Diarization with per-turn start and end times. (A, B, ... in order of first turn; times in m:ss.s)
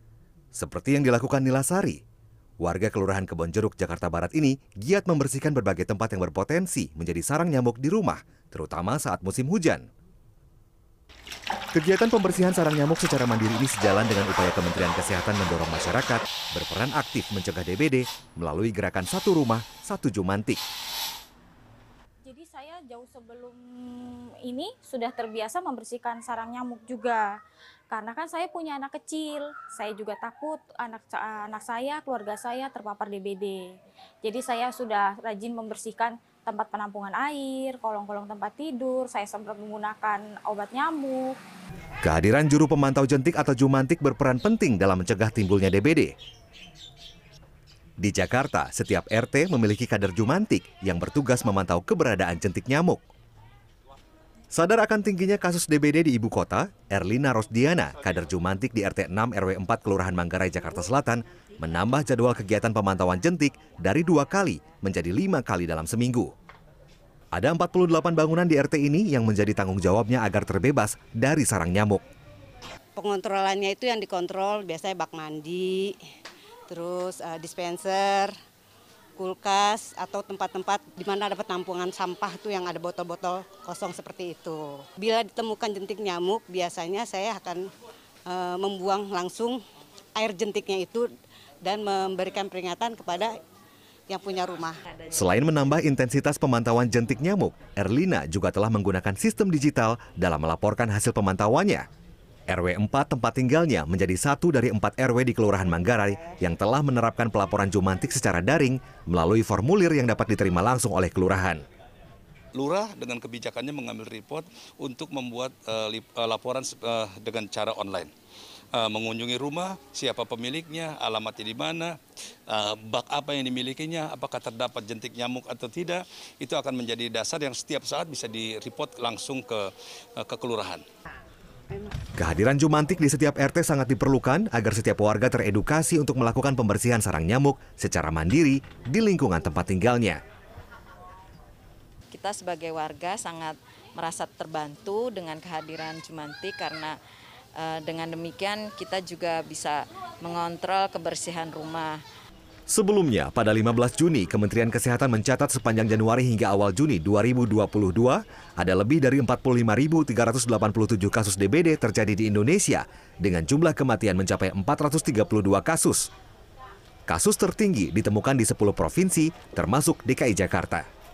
0:00.5-0:02.0 A
0:02.6-0:09.8 A
0:11.7-0:20.6 A
0:22.2-0:27.2 B
0:27.9-0:41.4 B
0:42.0-0:46.1 A
0:48.0-0:53.0 A
0:54.5-1:06.3 A
1:07.3-1:12.0 A
1:13.0-1:16.0 C
1:16.7-1:18.3 C
1:19.2-1:27.7 C
1:28.3-1:29.6 C
1:30.1-1:31.0 C
1:31.6-1:33.4 C
1:34.1-1:34.8 C
1:35.1-1:41.8 A
1:42.5-1:51.6 A
1:52.5-1:58.1 D
1:58.7-2:02.0 D
2:02.5-2:10.8 D
2:12.2-2:20.2 A
2:22.1-2:27.0 E
2:27.6-2:32.0 E
2:32.7-2:46.1 A
2:47.1-2:50.8 A